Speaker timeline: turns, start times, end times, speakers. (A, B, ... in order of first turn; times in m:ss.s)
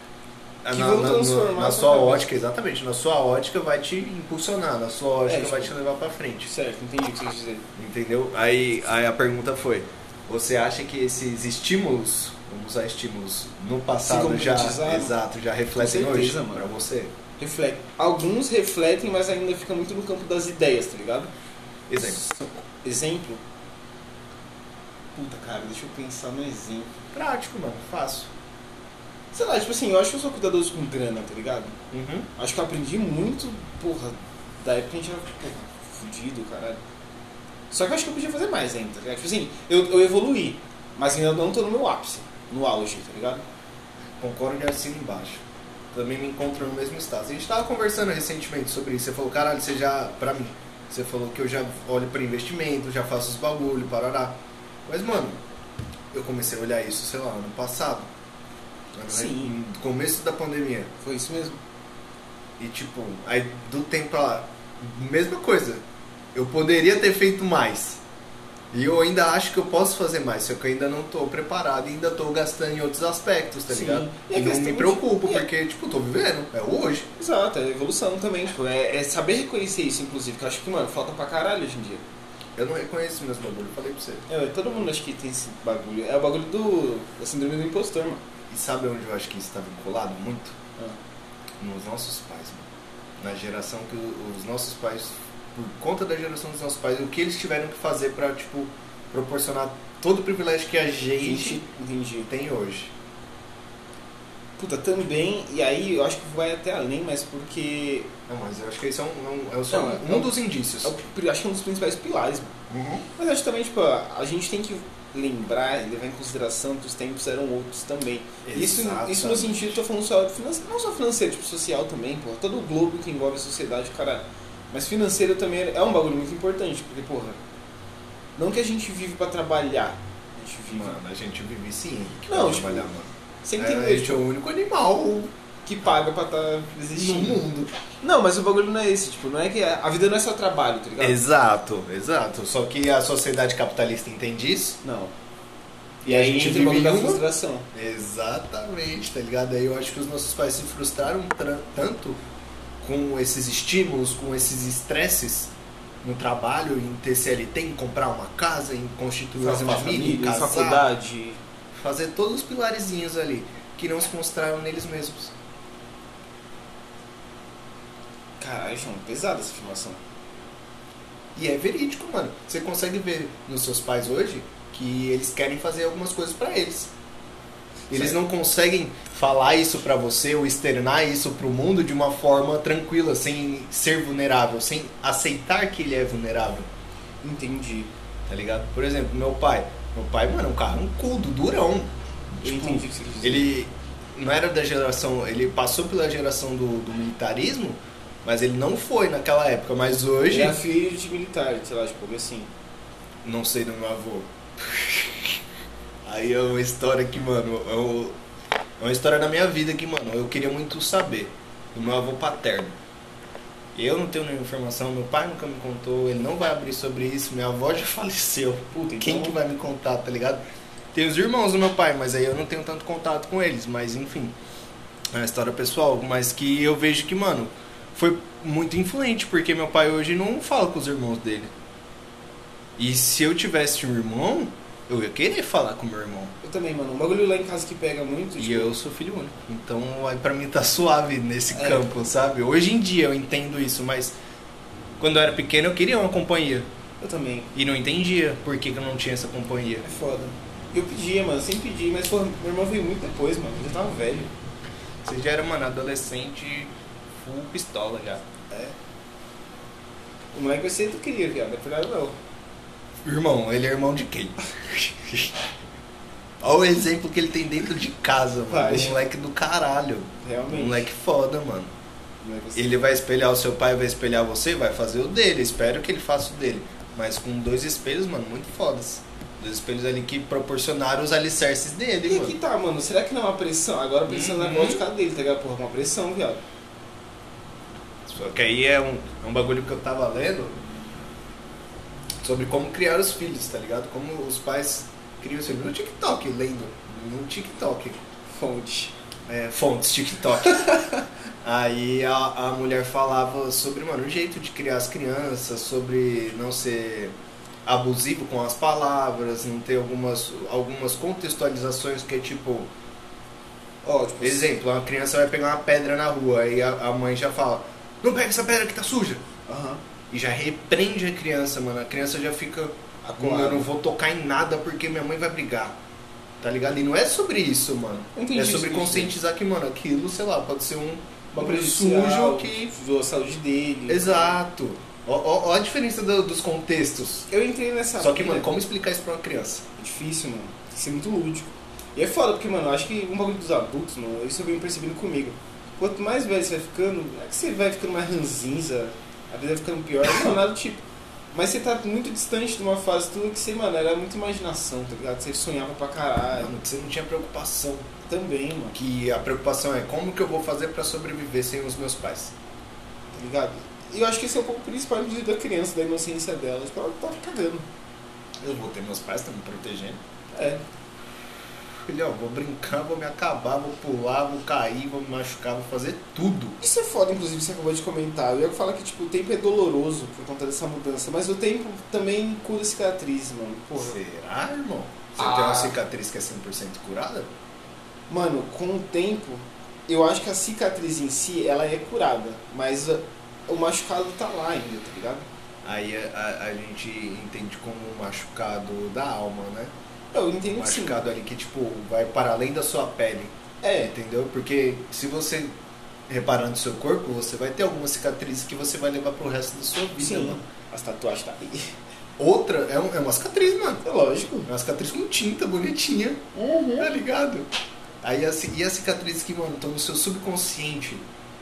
0:00.6-0:06.5 A
0:00.7-0:02.3 B
0:05.3-0:05.7 B
0:06.4-0:07.6 B
0:07.8-0:17.1 A
0:14.0-0:15.1 B
0:15.7-0:16.6 B
0:17.4-0:21.3 B
0:21.9-0:22.2 A
0:22.0-0:23.4 B
0:25.1-0:26.9 B
0:27.1-0:28.3 A
0:29.3-0:31.8 B
0:31.9-0:32.3 A
0:32.4-0:36.8 B
0:37.7-0:43.4 B
0:44.2-0:55.4 A
0:56.1-0:58.1 A
0:58.9-1:00.9 A
0:59.1-0:59.5 B
1:01.0-1:01.6 B
1:02.6-1:05.8 A
1:06.3-1:08.0 A
1:08.7-1:17.1 A
1:13.7-1:15.5 B
1:17.2-1:22.0 B
1:22.6-1:24.2 A
1:24.3-1:28.2 B
1:28.5-1:30.6 A
1:31.6-1:32.7 A
1:33.2-1:41.6 A
1:41.2-1:42.3 B
1:42.3-1:42.9 A
1:44.6-1:48.1 B
1:48.3-1:51.0 A
1:49.7-1:52.5 B
1:52.7-1:53.0 A
1:53.2-2:07.4 B
1:58.4-1:59.8 A
2:08.4-2:11.0 B
2:10.7-2:15.3 A
2:12.3-2:12.9 B
2:13.4-2:14.2 B
2:15.6-2:17.4 B
2:16.9-2:17.8 A
2:18.0-2:21.2 B
2:21.0-2:24.8 A
2:24.8-2:25.1 B
2:26.0-2:32.2 A
2:26.0-2:27.7 B
2:32.8-2:40.9 A
2:39.4-2:41.4 B
2:41.7-2:45.3 A
2:48.4-2:50.0 B
2:51.3-2:56.9 A
2:57.9-2:58.2 B
2:57.9-3:06.7 A
3:07.2-3:07.9 B
3:08.3-3:20.6 A
3:12.4-3:13.5 B
3:20.3-3:22.5 B
3:23.2-3:25.4 A
3:26.0-3:28.2 A
3:28.8-3:32.8 A
3:33.7-3:40.4 A
3:38.7-3:39.4 B
3:40.9-3:44.3 A
3:45.1-3:51.5 A
3:52.8-3:56.3 A
3:56.4-3:58.7 B
3:58.4-4:04.2 A
4:01.5-4:01.9 B
4:05.0-4:06.7 A
4:07.0-4:07.5 B
4:07.5-4:09.8 A
4:09.8-4:14.3 B
4:15.0-4:18.2 A
4:20.3-4:22.2 B
4:23.0-4:25.4 A
4:26.4-4:31.7 A
4:28.5-4:29.0 B
4:30.2-4:30.9 B
4:32.2-4:33.0 B
4:32.6-4:42.4 A
4:42.0-4:46.4 B
4:44.1-4:44.8 A
4:48.1-4:50.6 A
4:52.2-4:58.0 A
4:58.3-4:58.9 B
4:59.3-5:00.8 A
5:00.5-5:01.0 B
5:01.4-5:07.1 A
5:07.6-5:12.7 A
5:13.8-5:14.6 B
5:14.2-5:19.2 A
5:19.5-5:19.8 B
5:20.1-5:25.8 A
5:23.0-5:23.7 B
5:26.4-5:32.7 A
5:28.1-5:29.1 B
5:31.4-5:34.4 B
5:33.9-5:37.3 A
5:37.3-5:38.6 B
5:38.0-5:39.6 A
5:39.8-5:56.5 B
5:56.3-5:57.9 A
5:58.0-5:58.8 B
5:58.7-6:02.3 A
6:03.1-6:07.6 B
6:08.4-6:10.0 A
6:10.3-6:10.6 B
6:11.8-6:16.6 A
6:16.6-6:24.0 B
6:23.8-6:27.3 A
6:25.2-6:25.8 B
6:28.1-6:35.3 B
6:35.6-6:39.7 A
6:40.1-6:41.0 B
6:40.5-6:43.3 A
6:43.6-6:43.9 B
6:43.9-6:45.5 A
6:46.1-6:50.4 A
6:50.0-6:51.7 B
6:52.2-6:53.8 A
6:53.8-6:54.5 B
6:54.5-6:56.2 A
6:56.3-6:56.9 B
6:56.8-6:57.5 A
6:58.0-7:01.0 A